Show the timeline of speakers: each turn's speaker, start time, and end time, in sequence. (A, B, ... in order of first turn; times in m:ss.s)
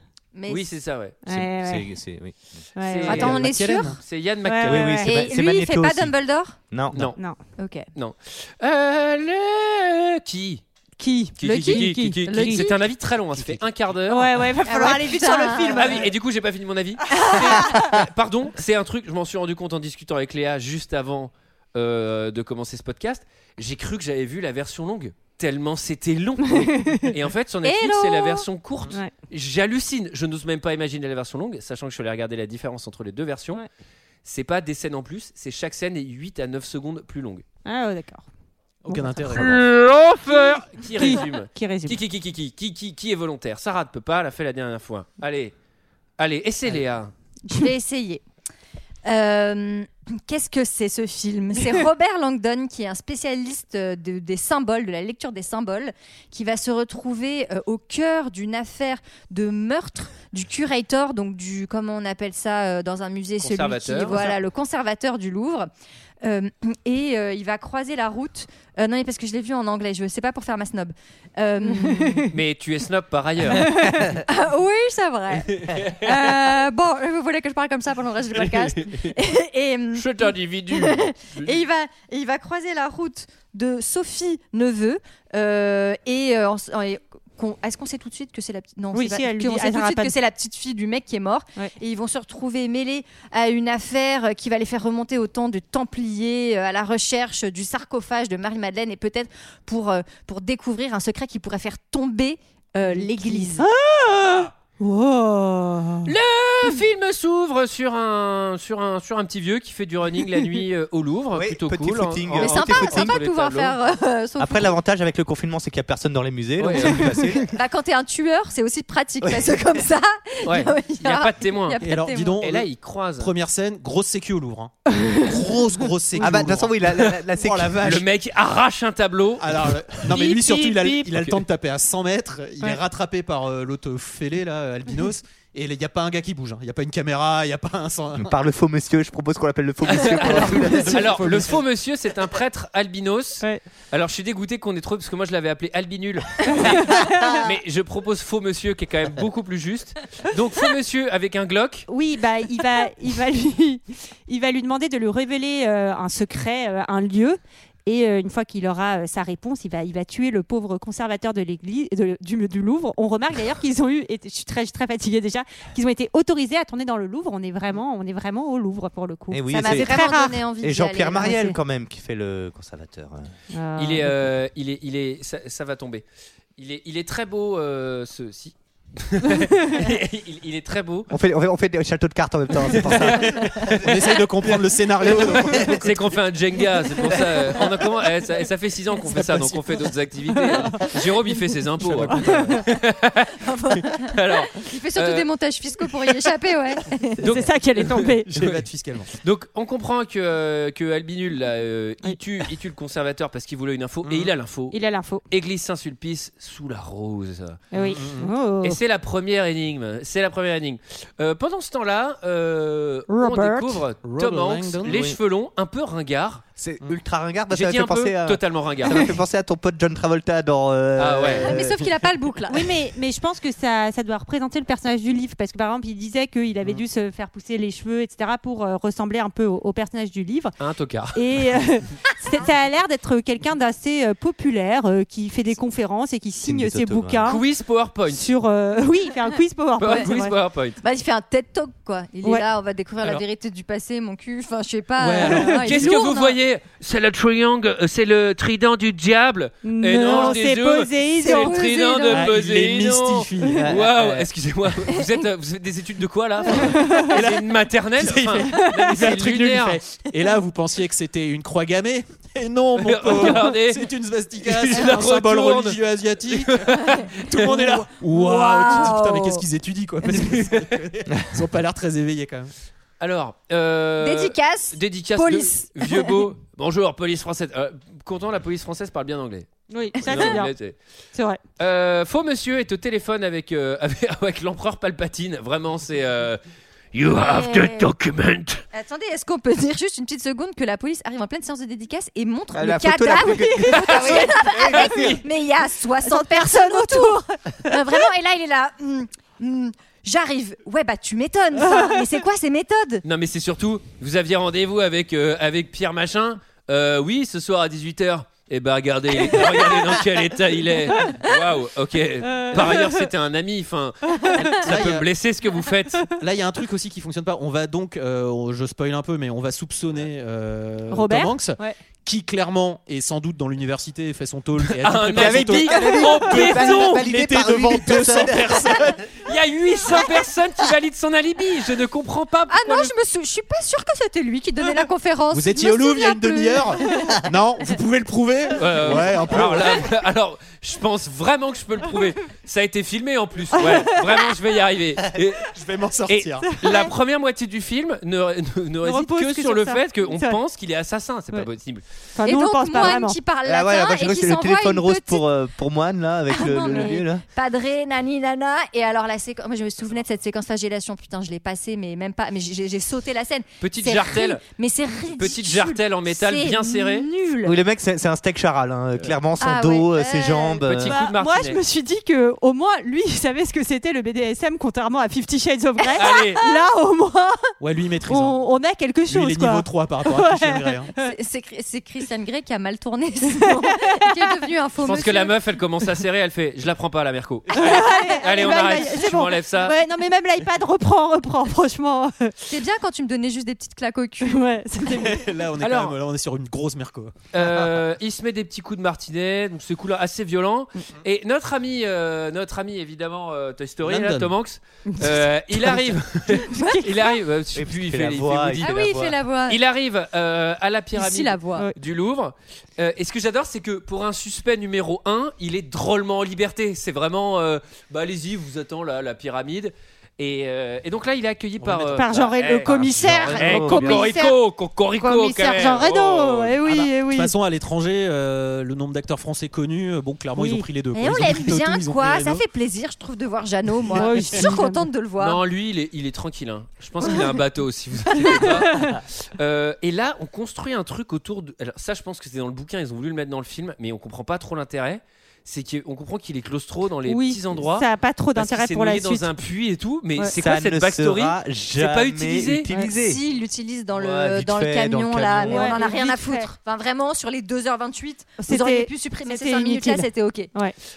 0:00.3-0:00.7 A
0:00.5-0:01.2 B
0:01.2-0:01.9 C
0:01.3-0:02.7 D
0:02.8-0:03.4 C
0:02.8-0:03.4 B
0:03.1-0:03.9 A
0:03.1-0:04.0 E
0:04.0-0:05.0 B
0:04.4-0:05.1 C
0:04.6-0:06.1 D
0:05.0-0:06.6 A
0:06.7-0:07.1 D
0:06.9-0:07.2 B
0:07.2-0:07.4 C
0:07.6-0:07.8 A
0:07.9-0:10.6 B
0:11.0-0:12.5 C
0:11.4-0:14.3 B
0:11.4-0:12.8 A
0:11.5-0:11.9 E
0:13.3-0:13.6 E
0:14.1-0:16.1 C
0:14.6-0:16.0 A
0:15.7-0:33.6 B
0:17.1-0:17.7 A
0:17.1-0:17.9 C
0:26.5-0:27.1 C
0:27.6-0:28.4 A
0:34.2-0:37.4 B
0:37.6-0:38.2 C
0:38.8-0:39.6 E
0:38.9-0:39.5 C
0:39.2-0:45.5 B
0:40.3-0:42.0 C
0:46.2-0:47.1 B
0:47.4-0:48.2 A
0:49.0-1:05.7 A
1:03.4-1:04.4 B
1:06.2-1:12.2 A
1:11.6-1:12.3 C
1:12.3-1:13.8 B
1:13.6-1:14.2 C
1:14.2-1:43.6 A
1:15.5-1:16.1 B
1:18.4-1:19.1 B
1:19.9-1:21.6 B
1:28.9-1:30.1 C
1:42.8-1:46.1 C
1:46.0-1:53.8 B
1:51.3-1:53.2 D
1:52.4-1:54.8 A
1:54.4-1:57.5 D
1:56.6-1:57.2 B
1:57.5-2:02.4 A
1:59.2-1:59.5 D
2:00.4-2:01.8 B
2:01.8-2:08.1 E
2:02.4-2:03.3 B
2:04.9-2:05.3 C
2:06.2-2:07.8 D
2:07.8-2:11.4 B
2:09.4-2:18.3 E
2:18.2-2:21.2 D
2:19.9-2:31.9 B
2:20.3-2:21.6 E
2:26.5-2:27.4 C
2:31.9-2:50.4 C
2:49.3-2:53.3 D
2:49.5-2:51.4 A
2:51.1-2:51.6 C
2:53.5-2:54.2 C
2:53.8-2:56.0 B
2:56.6-3:01.1 B
3:01.1-3:03.8 D
3:02.7-3:03.8 B
3:03.0-3:06.2 E
3:05.0-3:15.2 B
3:07.0-3:07.8 E
3:09.0-3:10.8 E
3:10.5-3:10.8 C
3:11.8-3:12.6 E
3:12.0-3:12.6 C
3:13.4-3:17.1 A
3:17.2-3:24.8 B
3:17.2-3:18.3 C
3:18.3-3:19.1 E
3:24.0-3:24.3 E
3:24.7-3:25.2 C
3:25.3-3:27.6 B
3:27.7-3:28.8 C
3:27.8-3:28.3 E
3:28.6-3:36.4 B
3:33.1-3:33.8 C
3:34.0-3:35.1 E
3:34.8-3:35.2 D
3:36.6-3:41.9 D
3:37.5-3:39.0 B
3:41.0-3:41.5 B
3:41.4-3:42.7 A
3:42.5-3:50.5 C
3:50.6-3:51.2 B
3:51.1-3:57.4 C
3:56.4-3:57.4 D
3:57.2-3:58.2 B
3:58.1-4:00.4 C
3:59.8-4:00.8 B
4:00.8-4:06.4 A
4:05.0-4:05.9 E
4:05.5-4:19.8 B
4:09.6-4:11.6 C
4:11.2-4:12.2 A
4:12.1-4:13.7 E
4:13.5-4:14.2 D
4:16.7-4:17.1 C
4:17.0-4:32.5 E
4:18.6-4:19.1 C
4:22.8-4:23.9 B
4:24.4-4:27.8 B
4:28.1-4:29.4 A
4:30.2-4:30.8 B
4:33.0-4:40.8 B
4:34.0-4:36.2 A
4:39.7-4:40.5 C
4:41.1-4:41.4 C
4:41.6-4:46.4 B
4:46.9-4:48.6 B
4:47.2-4:47.9 A
4:48.7-5:03.0 A
4:52.5-4:55.2 D
4:53.7-4:55.2 B
4:56.0-4:57.8 C
5:01.7-5:01.9 C
5:03.0-5:16.0 B
5:09.3-5:09.6 C
5:12.2-5:13.1 C
5:14.1-5:14.5 C
5:14.5-5:15.1 E
5:16.2-5:29.0 E
5:20.9-5:21.8 C
5:24.6-5:27.1 B
5:25.1-5:28.9 D
5:28.2-5:32.9 B
5:32.5-5:37.1 A
5:35.3-5:39.8 E
5:38.5-5:45.5 B
5:43.5-5:44.2 C
5:45.5-5:46.5 E
5:46.1-5:51.8 B
5:46.4-5:46.9 C
5:48.8-5:50.4 C
5:52.2-5:53.2 C
5:52.2-5:55.3 A
5:53.4-5:57.2 D
5:56.3-6:07.6 A
5:56.5-5:57.0 C
6:03.6-6:04.4 B
6:05.1-6:07.1 B
6:07.4-6:11.0 D
6:09.4-6:10.6 A
6:10.6-6:11.6 B
6:10.8-6:17.5 C
6:16.0-6:16.4 B
6:17.6-6:18.4 E
6:18.0-6:21.1 C
6:19.1-6:20.9 E
6:21.0-6:25.3 A
6:23.3-6:24.4 C
6:24.8-6:29.7 B
6:27.5-6:32.3 C
6:32.5-6:34.4 A
6:34.2-6:35.4 C
6:34.8-6:37.8 E
6:35.6-6:36.0 B
6:37.3-7:06.6 B
6:43.8-6:44.4 E
6:44.9-6:45.2 C
6:45.7-6:46.0 E
6:46.5-6:47.0 A
6:46.5-6:46.8 C
6:47.5-6:49.1 D
6:48.6-6:49.6 A
6:50.9-6:51.7 A
7:01.6-7:04.1 E
7:01.9-7:04.4 C
7:03.4-7:03.9 D
7:05.0-7:07.3 C
7:06.6-7:12.4 E
7:10.3-7:10.7 C
7:10.9-7:15.4 A
7:13.9-7:14.9 C
7:15.2-7:32.7 B
7:18.1-7:19.0 C
7:27.0-7:29.3 C
7:30.3-7:33.2 D
7:32.7-7:40.5 A
7:33.9-7:35.8 D
7:35.4-7:36.5 C
7:38.4-7:40.8 C